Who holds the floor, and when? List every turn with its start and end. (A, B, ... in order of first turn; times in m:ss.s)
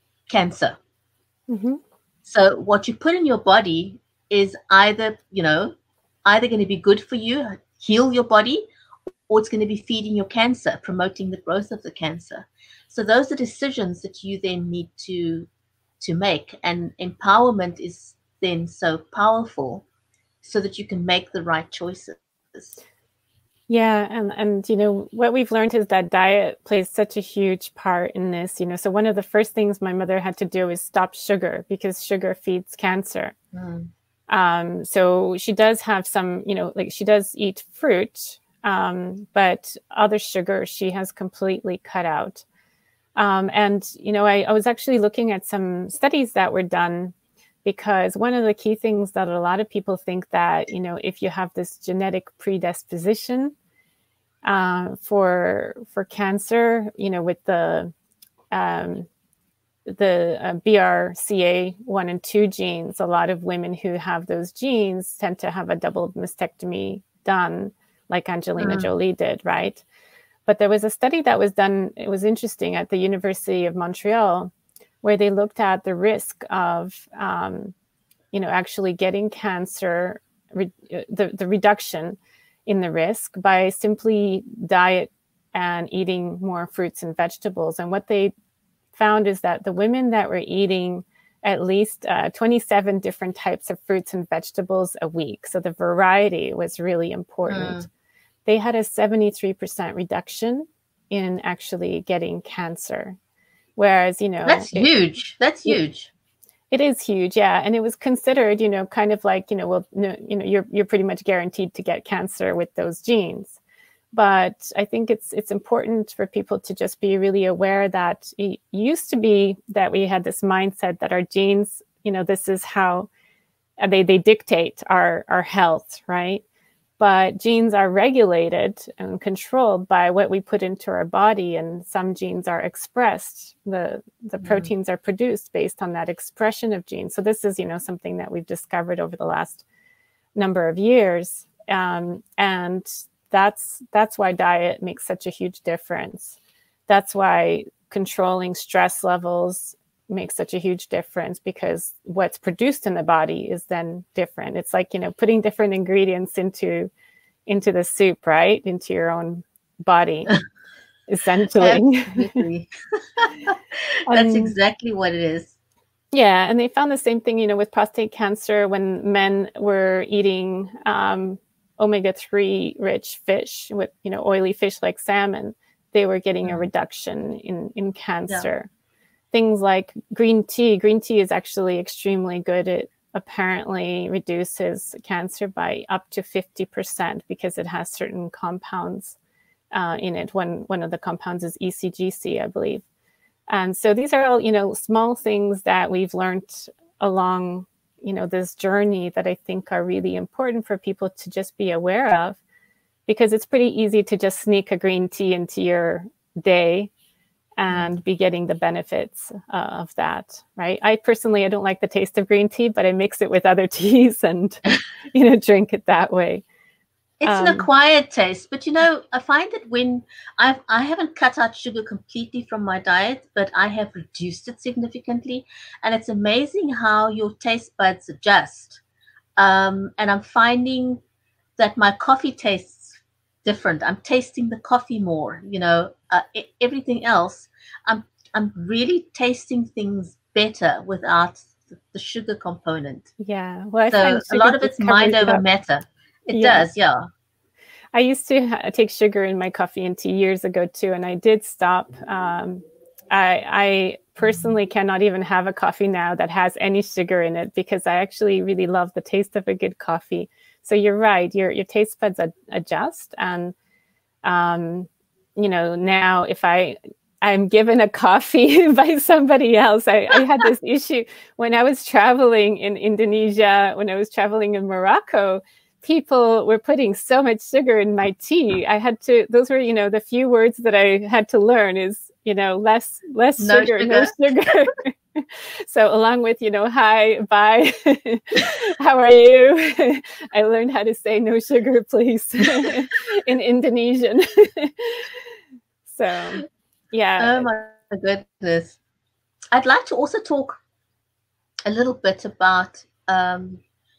0:00.3-0:00.8 A
0:01.5-0:01.8 B
0:02.2-0:05.7 A
0:06.2-0:08.6 A
0:09.3-0:15.5 A
0:16.0-0:19.8 A
0:20.4-0:22.8 A
0:23.7-0:33.3 B
0:33.5-0:33.9 A
0:34.3-0:42.4 B
0:43.2-0:53.5 B
0:54.4-0:57.9 B
0:58.5-0:59.1 B
0:59.8-1:09.8 B
1:08.6-1:08.9 A
1:10.5-1:17.7 B
1:18.3-1:28.3 B
1:28.9-1:37.9 B
1:37.5-1:37.9 A
1:38.4-1:43.2 B
1:43.8-1:44.9 B
1:44.4-1:46.1 A
1:46.7-1:53.6 B
1:54.1-2:03.1 B
2:03.8-2:06.4 B
2:07.0-2:19.6 B
2:14.4-2:14.7 A
2:20.3-2:26.4 B
2:26.9-2:36.9 B
2:37.5-2:40.3 B
2:41.1-2:42.4 B
2:41.6-2:45.5 A
2:44.1-2:44.6 B
2:46.1-2:58.7 B
2:59.3-3:09.2 B
3:09.7-3:12.8 B
3:13.5-3:22.4 B
3:23.1-3:26.9 B
3:27.6-3:36.4 B
3:37.2-3:48.8 A
3:37.2-3:37.7 B
3:49.4-3:51.0 A
3:51.6-4:03.1 A
4:03.2-4:05.4 B
4:03.9-4:07.0 A
4:06.3-4:06.7 B
4:07.9-4:23.5 B
4:24.2-4:55.2 B
4:43.4-4:44.1 A
4:55.8-4:57.5 B
4:57.2-4:58.8 A
4:59.5-5:00.6 A
5:01.6-5:03.6 A